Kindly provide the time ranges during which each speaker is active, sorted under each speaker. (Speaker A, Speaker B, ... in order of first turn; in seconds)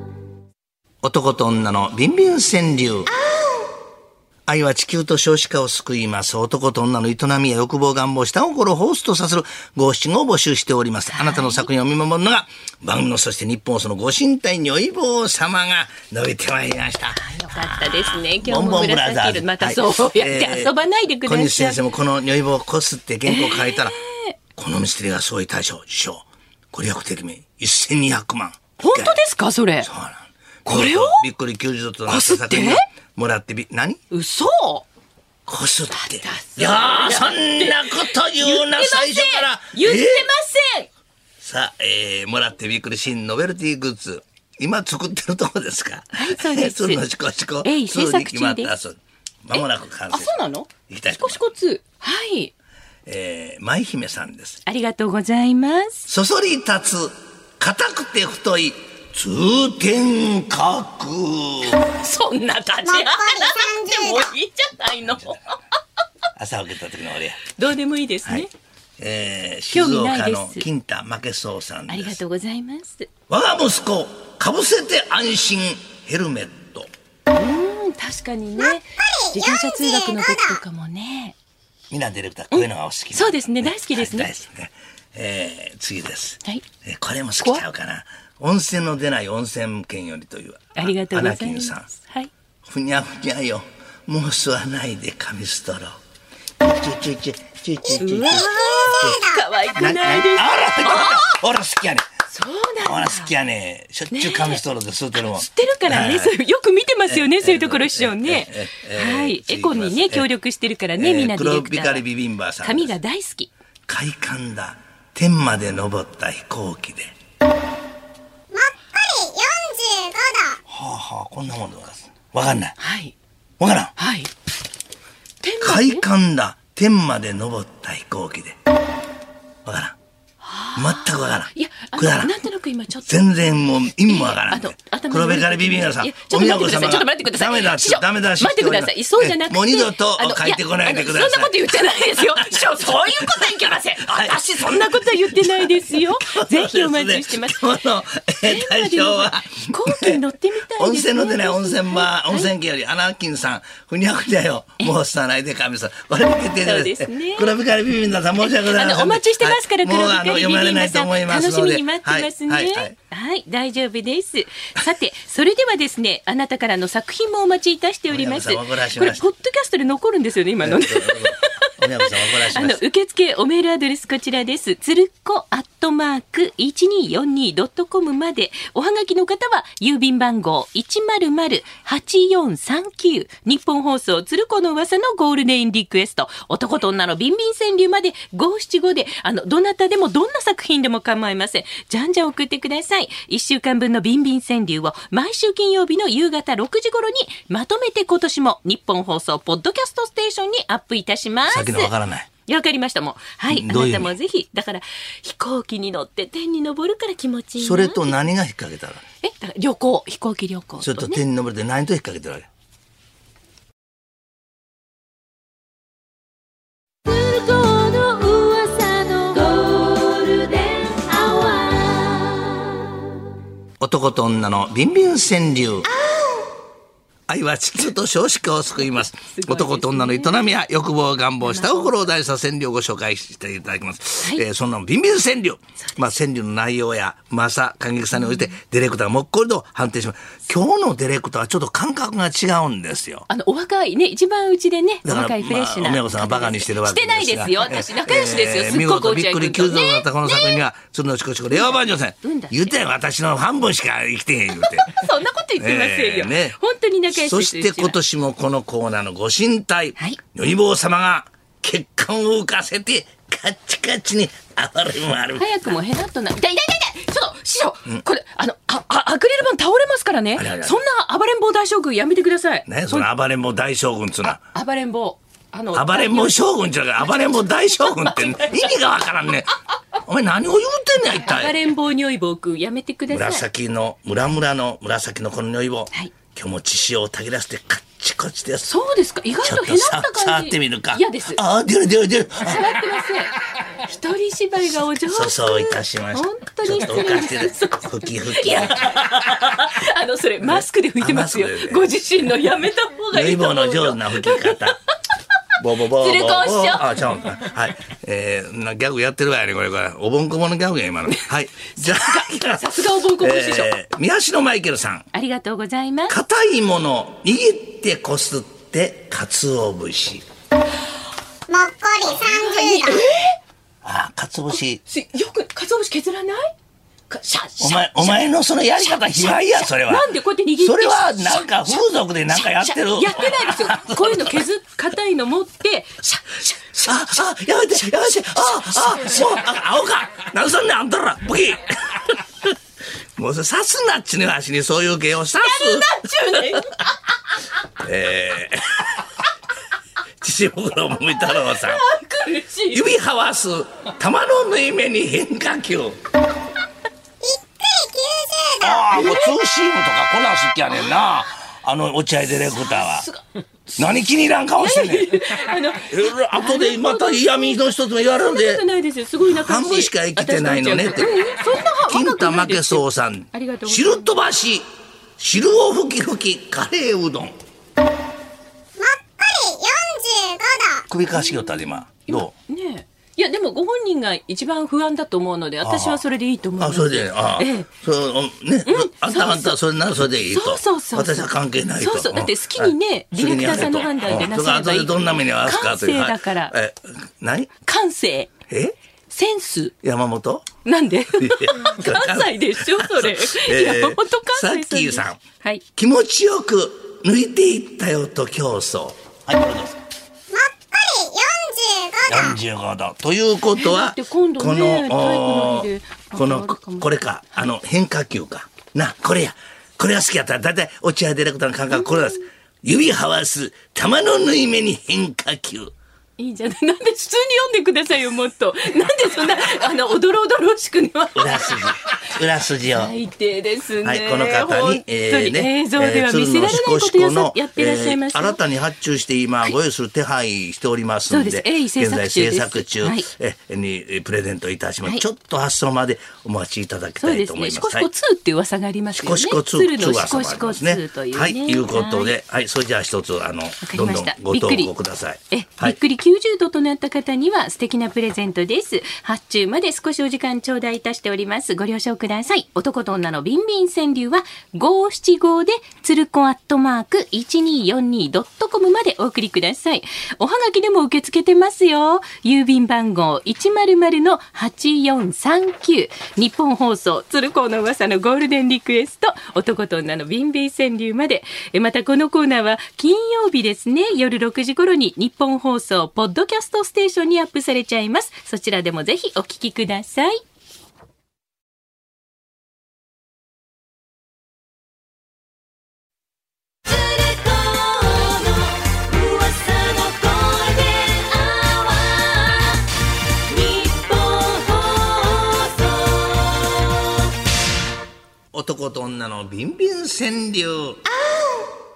Speaker A: 1.0-3.1, 4.5-17.3, 18.2-20.7, 21.2-24.0, 24.6-29.2, 29.8-34.0, 35.5-40.3, 41.4-50.4, 50.9-51.5, 53.0-54.6, 56.1-61.8, 65.0-65.4, 66.3-67.4, 69.0-72.2, 73.3-76.9, 81.9-91.9, 92.6-95.9, 96.6-102.0, 102.8-106.3, 107.1-110.3, 111.0-113.0, 113.9-117.1, 120.7-122.8, 123.6-123.9, 125.6-128.6, 129.6-129.9, 130.8-132.4, 133.1-150.2, 150.8-162.9, 168.1-169.2, 170.6-172.8, 201.5-202.3, 203.5-204.1, 207.6-209.0, 210.8-212.5, 223.8-225.9, 227.3-243.3, 245.0-255.0, 255.6-256.6, 257.1-265.6, 270.4-270.8, 272.7-274.4, 275.7-281.6, 283.1-288.7, 289.4-292.9, 295.0-299.1, 300.4-301.9, 303.1-304.8, 305.6-315.1, 316.1-320.2, 323.8-324.8, 327.6-330.1, 330.6-334.4, 336.8-342.5, 343.1-346.7, 347.8-349.1, 350.2-351.8, 352.7-356.0, 358.6-363.1, 363.8-368.6, 369.2-374.6, 375.2-377.3, 380.9-382.3, 385.6-386.0, 386.6-397.5, 398.5-398.8, 399.8-400.5, 401.2-405.2, 405.8-409.8, 412.1-425.7, 431.1-432.9, 433.8-447.9, 449.0-455.8, 508.3-510.8
Speaker B: 3.1-3.7, 11.1-11.7, 17.2-21.8, 23.2-24.4, 28.8-29.9, 30.6-31.2, 32.1-32.9, 34.1-34.9, 35.9-40.9, 46.1-47.0, 47.6-48.7, 49.5-52.5, 54.7-56.0, 61.6-65.6, 67.5-68.5, 69.7-70.7, 71.9-73.1, 77.3-81.3, 82.5-84.3, 90.7-92.3, 97.8-101.3, 102.3-103.3, 104.1-104.6, 105.2-112.0, 112.6-113.5, 122.8-123.1, 124.0-124.3, 125.4-126.0, 130.4-133.2, 134.0-147.7, 148.4-152.5, 156.6-157.5, 158.4-171.5, 172.0-201.9, 202.4-208.1, 209.2-211.2, 217.0-223.0, 225.9-226.5, 229.2-230.4, 231.4-232.0, 238.2-238.5, 243.3-250.6, 251.5-252.8, 254.6-258.0, 265.3-273.1, 274.2-278.8, 281.2-283.4, 288.6-291.4, 292.4-304.8, 305.9-306.9, 311.1-313.7, 315.1-316.1, 322.1-323.4, 324.5-326.5, 327.1-328.2, 328.8-337.1, 345.3-346.9, 351.1-352.9, 358.9-359.3, 362.3-363.2, 364.6-367.6, 368.1-374.1, 381.1-387.7, 388.6-389.6, 390.3-396.6, 397.6-398.3, 399.1-399.7, 400.6-405.6, 413.6-416.9, 421.7-422.1, 426.2-432.1, 432.7-438.4, 441.1-443.1, 447.0-452.1, 453.6-454.7, 455.3-490.2, 496.6-502.7, 503.2-506.9, 510.9-511.5
Speaker C: 62.8-64.3, 79.0-80.6, 98.8-99.4, 118.5-120.6, 321.5-323.2, 357.2-358.9, 378.8-380.9, 410.3-412.4